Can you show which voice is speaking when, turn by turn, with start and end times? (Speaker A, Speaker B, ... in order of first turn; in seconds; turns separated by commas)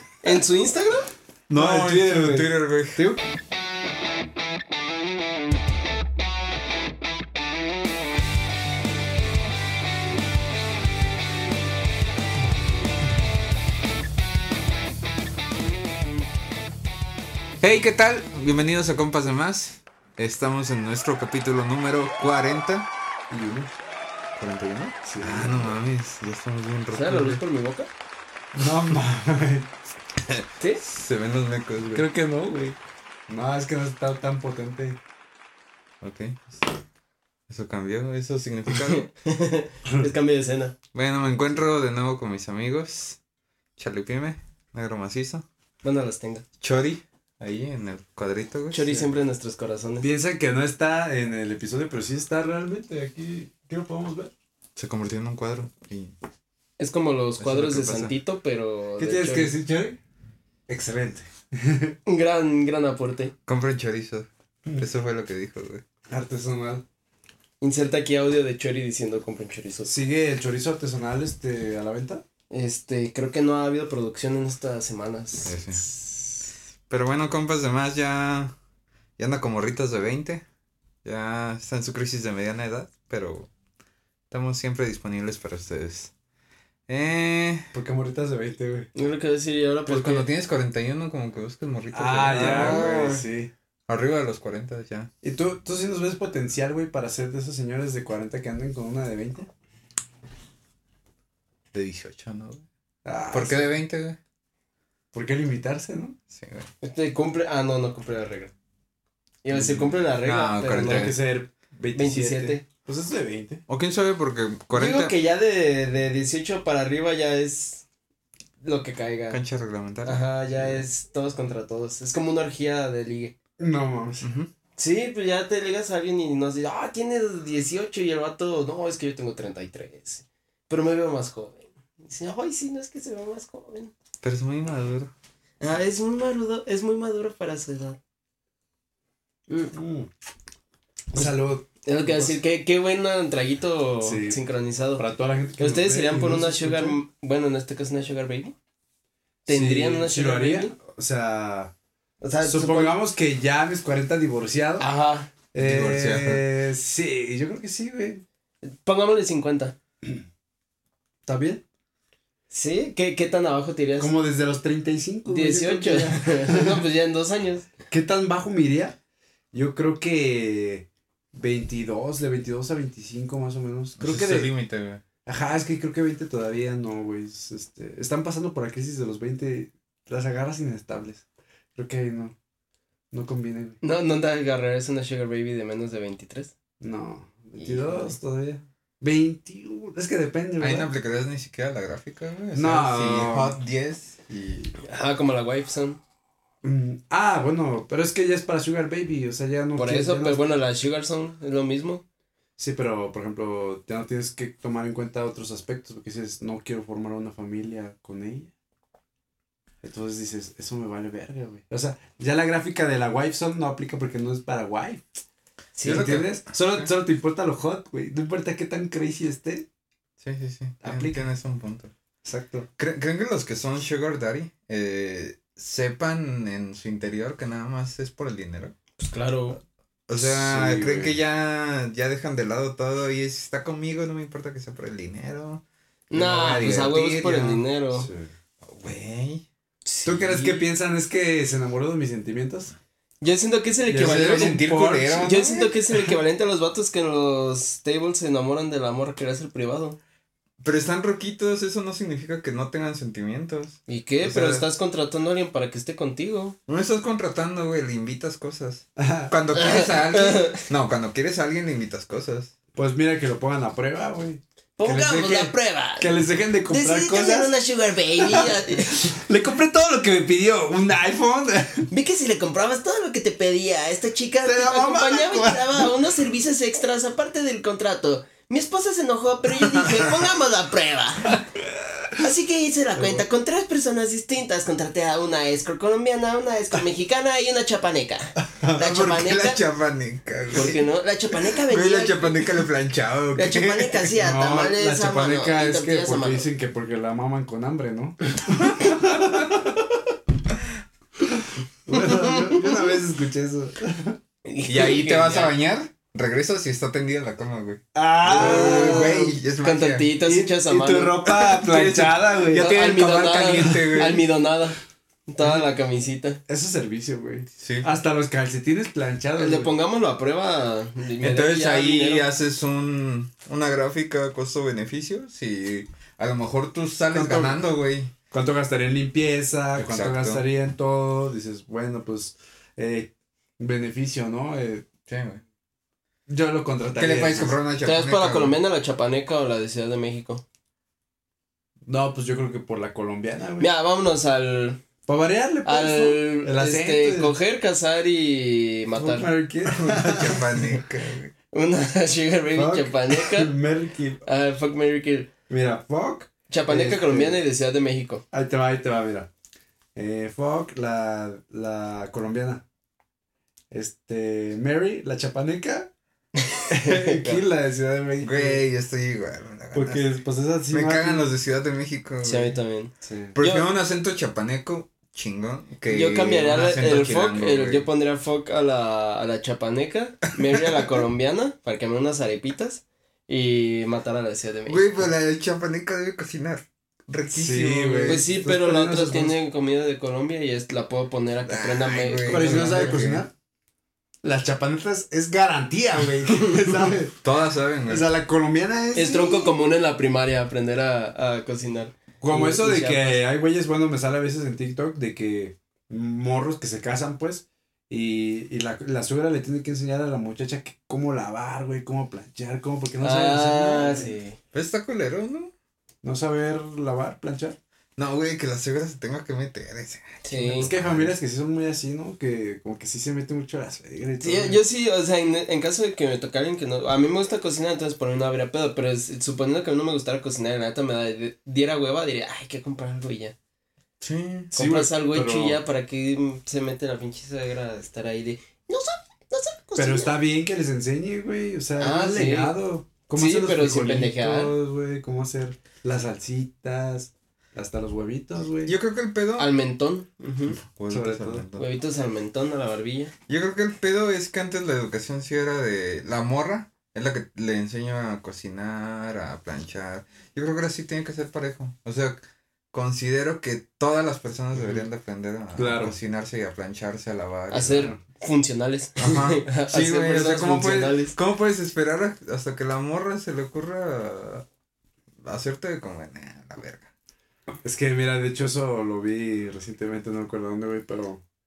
Speaker A: 0.2-1.1, Speaker B: 1.5-3.2, Speaker C: 1.5-3.0, Speaker C: 17.6-22.9, Speaker B: 23.3-23.7, Speaker C: 24.4-27.4, Speaker B: 25.0-25.8, Speaker A: 26.9-27.9, Speaker B: 28.6-29.7, Speaker C: 30.2-32.0, Speaker B: 31.9-32.8, Speaker B: 33.3-35.0, Speaker C: 36.0-36.7, Speaker C: 37.5-39.1, Speaker A: 38.7-40.8, Speaker C: 40.9-43.2, Speaker C: 43.8-45.5, Speaker A: 45.8-46.4, Speaker C: 46.6-49.0, Speaker A: 48.7-50.1, Speaker B: 50.0-54.3, Speaker C: 54.8-56.1, Speaker A: 56.8-59.6, Speaker C: 57.4-58.2, Speaker B: 59.0-60.0, Speaker B: 60.7-62.0, Speaker A: 62.1-63.3, Speaker C: 63.5-65.8, Speaker B: 66.1-66.8, Speaker A: 67.6-69.9, Speaker B: 69.9-72.2, Speaker A: 72.5-75.5, Speaker C: 75.5-75.8, Speaker B: 75.5-76.2, Speaker C: 76.9-78.5, Speaker C: 79.2-80.4, Speaker C: 81.0-83.5, Speaker C: 84.3-86.1, Speaker C: 86.9-87.7, Speaker B: 87.7-88.9, Speaker A: 89.0-90.3, Speaker C: 89.9-93.2, Speaker B: 91.9-93.5, Speaker A: 92.3-93.2, Speaker C: 93.9-95.1, Speaker B: 95.2-99.5, Speaker C: 101.7-102.6, Speaker B: 103.0-103.8, Speaker C: 103.3-104.2, Speaker B: 105.1-106.2, Speaker C: 106.3-106.7, Speaker A: 106.8-108.5, Speaker A: 109.4-111.1, Speaker B: 109.5-109.9, Speaker C: 110.2-111.2, Speaker B: 110.7-113.6, Speaker A: 111.9-112.6, Speaker C: 113.7-115.2, Speaker A: 114.7-117.8, Speaker A: 118.6-119.4, Speaker C: 119.3-120.8, Speaker A: 120.0-123.3, Speaker B: 123.6-124.2, Speaker C: 124.2-124.5, Speaker A: 124.8-133.9, Speaker C: 134.2-135.1, Speaker A: 135.6-138.0, Speaker A: 139.5-139.8, Speaker B: 139.7-140.1, Speaker B: 141.1-142.4, Speaker A: 141.8-145.0, Speaker B: 144.0-144.4, Speaker B: 145.0-147.0, Speaker A: 145.6-148.6, Speaker A: 149.5-150.7, Speaker B: 149.5-151.7, Speaker A: 152.2-153.0, Speaker B: 152.4-154.9, Speaker A: 154.8-155.3, Speaker B: 155.5-158.2, Speaker C: 155.6-156.4, Speaker A: 158.6-159.8, Speaker B: 161.3-161.6, Speaker A: 162.5-164.1, Speaker B: 164.0-166.8, Speaker A: 165.3-167.7, Speaker B: 167.9-169.0, Speaker B: 169.5-174.5, Speaker C: 174.0-175.0, Speaker B: 175.3-181.2, Speaker B: 181.8-182.3, Speaker B: 183.1-183.8, Speaker A: 183.8-186.5, Speaker B: 186.8-190.9, Speaker A: 187.6-188.1, Speaker C: 190.6-194.7, Speaker B: 192.5-193.6, Speaker A: 194.8-196.0, Speaker B: 196.6-200.4, Speaker A: 199.8-202.0, Speaker B: 202.6-208.5, Speaker B: 209.8-215.0, Speaker A: 215.8-216.2, Speaker C: 215.8-216.9, Speaker B: 215.8-219.7, Speaker C: 220.2-221.9, Speaker B: 220.8-221.3, Speaker B: 222.2-222.7, Speaker C: 222.8-228.7, Speaker A: 229.0-229.6, Speaker C: 230.1-237.6, Speaker B: 230.2-231.2, Speaker A: 236.1-238.1, Speaker B: 237.9-238.3, Speaker C: 238.6-239.4, Speaker A: 239.8-240.6, Speaker B: 240.1-242.7, Speaker A: 243.2-244.6, Speaker B: 243.9-246.2, Speaker C: 243.9-245.5, Speaker A: 245.2-250.0, Speaker C: 250.6-254.7, Speaker A: 253.9-256.6, Speaker C: 256.7-262.5, Speaker B: 259.0-259.3, Speaker A: 259.5-260.6, Speaker B: 262.8-267.5, Speaker A: 264.8-266.1, Speaker A: 266.7-269.2, Speaker B: 268.2-271.9, Speaker A: 271.9-281.4, Speaker B: 274.4-276.0, Speaker B: 281.3-282.1, Speaker A: 282.2-289.6, Speaker B: 283.0-283.2, Speaker C: 288.6-290.8, Speaker A: 290.5-292.6, Speaker C: 291.7-294.1, Speaker A: 293.4-296.5, Speaker B: 294.1-299.7, Speaker B: 301.4-304.2, Speaker A: 302.0-302.8, Speaker A: 304.4-305.5, Speaker C: 304.7-310.1, Speaker B: 307.9-309.4, Speaker A: 308.3-311.2, Speaker B: 310.2-312.7, Speaker C: 311.3-314.3, Speaker A: 312.5-316.4, Speaker B: 316.5-319.7, Speaker C: 317.6-318.0, Speaker A: 319.4-322.2, Speaker C: 321.2-328.1, Speaker B: 327.1-327.6, Speaker B: 328.3-334.9, Speaker C: 329.8-330.4, Speaker C: 335.1-335.4, Speaker B: 336.3-337.6, Speaker C: 336.9-338.6, Speaker A: 337.8-340.4, Speaker B: 341.9-343.7, Speaker A: 343.6-344.8, Speaker B: 345.1-347.4, Speaker A: 345.7-349.3, Speaker B: 349.0-350.7, Speaker C: 349.6-351.3, Speaker A: 351.5-353.5, Speaker B: 352.5-354.2, Speaker A: 354.2-355.3, Speaker B: 355.5-357.4, Speaker A: 356.5-358.2, Speaker B: 358.3-359.3, Speaker B: 359.9-362.6, Speaker B: 363.7-365.9, Speaker A: 366.4-367.4, Speaker B: 366.7-368.6, Speaker C: 368.2-370.1, Speaker B: 369.7-371.2, Speaker C: 370.7-372.6, Speaker A: 372.2-373.7, Speaker B: 373.0-373.4, Speaker C: 373.4-377.9, Speaker A: 375.9-385.1, Speaker C: 384.7-388.2, Speaker B: 387.3-389.4, Speaker A: 388.1-393.0, Speaker C: 391.5-393.3, Speaker B: 392.3-393.3, Speaker B: 394.2-397.2, Speaker C: 397.2-398.1, Speaker B: 397.9-399.5, Speaker A: 398.9-403.3, Speaker B: 402.2-414.1, Speaker A: 413.0-414.4, Speaker C: 414.5-415.5, Speaker B: 416.0-417.6, Speaker C: 418.0-421.2, Speaker A: 420.2-420.7, Speaker B: 420.6-424.6, Speaker A: 424.2-433.4, Speaker C: 434.0-434.5, Speaker B: 434.5-435.6, Speaker A: 434.5-440.2, Speaker B: 439.8-448.7, Speaker A: 441.8-442.6, Speaker A: 443.1-444.5, Speaker C: 448.6-449.6, Speaker A: 449.4-450.6, Speaker C: 450.6-451.7, Speaker B: 450.9-451.4, Speaker A: 451.6-453.1, Speaker C: 453.3-462.2, Speaker C: 462.7-468.0, Speaker B: 464.6-464.8, Speaker B: 465.6-466.0, Speaker A: 467.5-471.1, Speaker C: 469.0-474.4, Speaker C: 475.2-476.9, Speaker B: 477.6-481.2